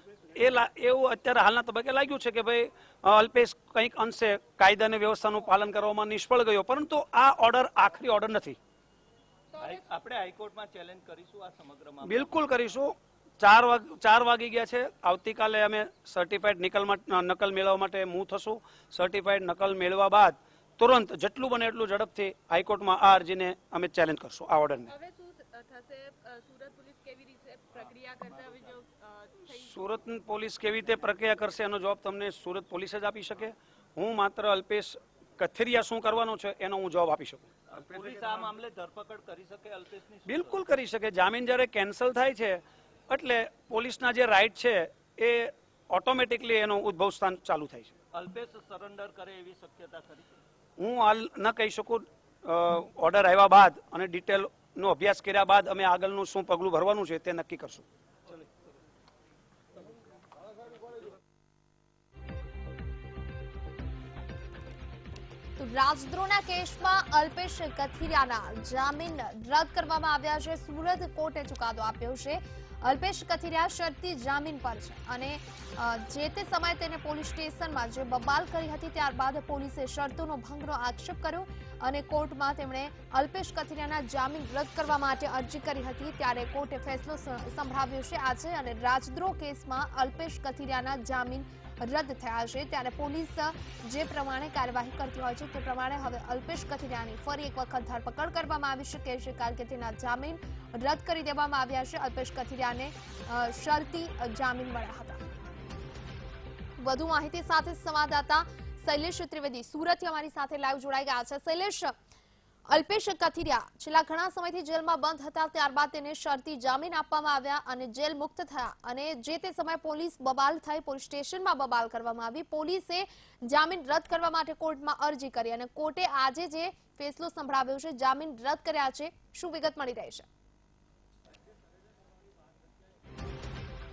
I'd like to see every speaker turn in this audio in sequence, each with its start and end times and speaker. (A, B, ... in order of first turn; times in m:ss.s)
0:00.3-0:08.6 A
0:09.6-0:12.4 B
0:12.0-0:24.9 A
0:24.9-0:29.9 C
0:29.5-0:37.5 A
0:37.7-0:40.6 B
0:40.2-0:47.9 A
0:48.1-0:50.4 B
0:50.8-0:57.8 A
1:05.6-1:45.2 D
1:46.8-1:51.9 D
1:52.7-2:10.3 D